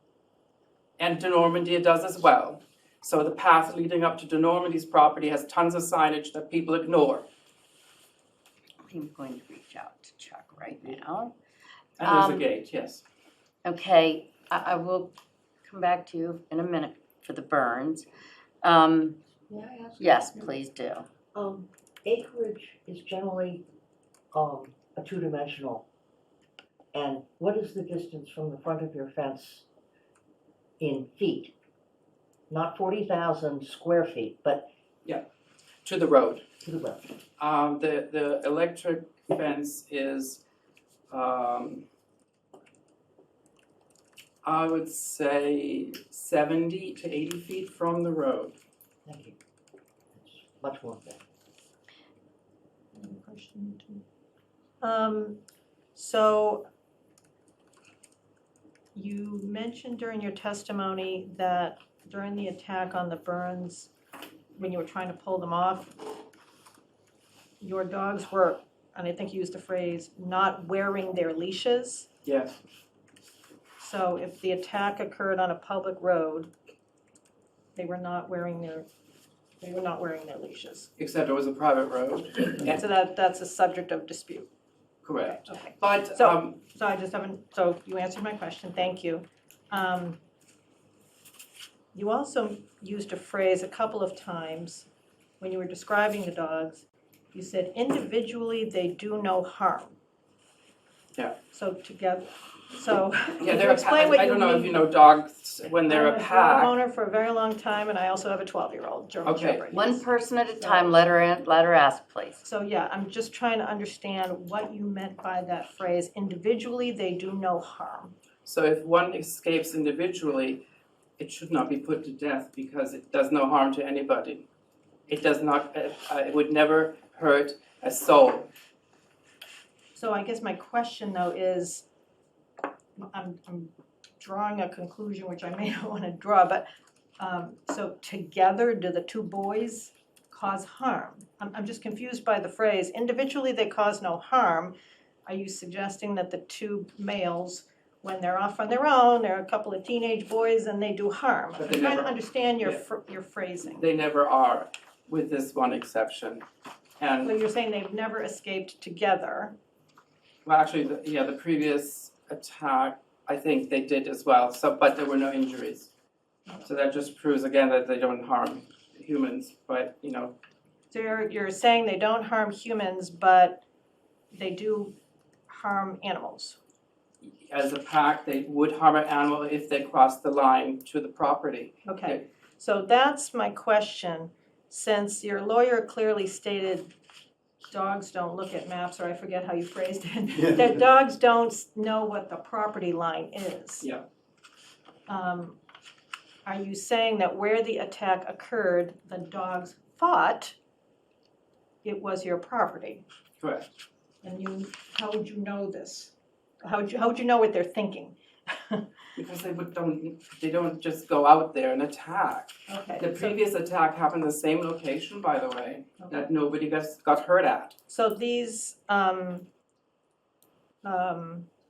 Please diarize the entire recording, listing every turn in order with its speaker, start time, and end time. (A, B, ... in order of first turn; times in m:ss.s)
0:01.0-0:07.3 A
0:08.8-0:11.3 B
0:12.0-0:13.0 A
0:12.0-0:12.4 B
0:13.6-0:15.1 B
0:15.6-0:18.0 B
0:18.6-0:19.2 B
0:19.5-0:20.5 C
0:20.0-0:21.0 B
0:21.3-0:23.6 C
0:24.3-0:25.8 C
0:26.9-0:29.6 C
0:30.8-0:31.5 C
0:32.5-0:34.7 C
0:35.8-0:36.4 A
0:36.6-0:37.0 C
0:37.4-0:40.4 A
0:41.1-0:41.8 A
0:44.4-0:48.6 A
0:49.0-0:49.4 C
0:50.1-0:51.2 C
0:52.9-0:54.0 D
0:54.8-0:55.4 D
0:55.9-0:56.6 D
0:58.9-1:03.9 D
1:04.6-1:06.0 D
1:07.6-1:12.1 D
1:12.2-1:12.6 A
1:13.8-1:16.5 D
1:17.8-1:18.8 D
1:19.6-1:20.9 D
1:21.0-1:22.8 A
1:22.6-1:24.5 D
1:25.0-1:26.6 A
1:25.2-1:30.2 D
1:31.9-1:34.9 D
1:35.4-1:39.9 D
1:41.5-1:44.8 D
1:43.4-1:46.7 A
1:45.9-1:50.0 D
1:49.2-1:49.6 A
1:49.7-1:52.4 B
1:50.6-1:50.9 D
1:52.4-1:58.1 D
1:58.4-2:00.6 A
2:01.2-2:04.4 A
2:05.1-2:08.5 A
2:10.0-2:11.8 D
2:13.0-2:16.6 D
2:17.2-2:24.7 D
2:25.2-2:33.9 D
2:31.6-2:32.8 A
2:33.8-2:36.4 A
2:37.0-2:37.3 A
2:37.2-2:39.5 D
2:40.4-2:45.9 A
2:46.6-2:50.4 A
2:50.9-2:53.6 D
2:54.3-2:55.0 D
2:55.5-2:56.6 D
2:57.2-3:02.2 A
3:01.8-3:06.9 D
3:07.6-3:13.9 D
3:15.1-3:15.6 D
3:16.4-3:20.5 D
3:21.8-3:23.0 D
3:23.4-3:23.7 A
3:24.2-3:28.8 D
3:29.2-3:37.8 A
3:32.7-3:33.4 D
3:37.9-3:39.5 D
3:40.8-3:41.5 D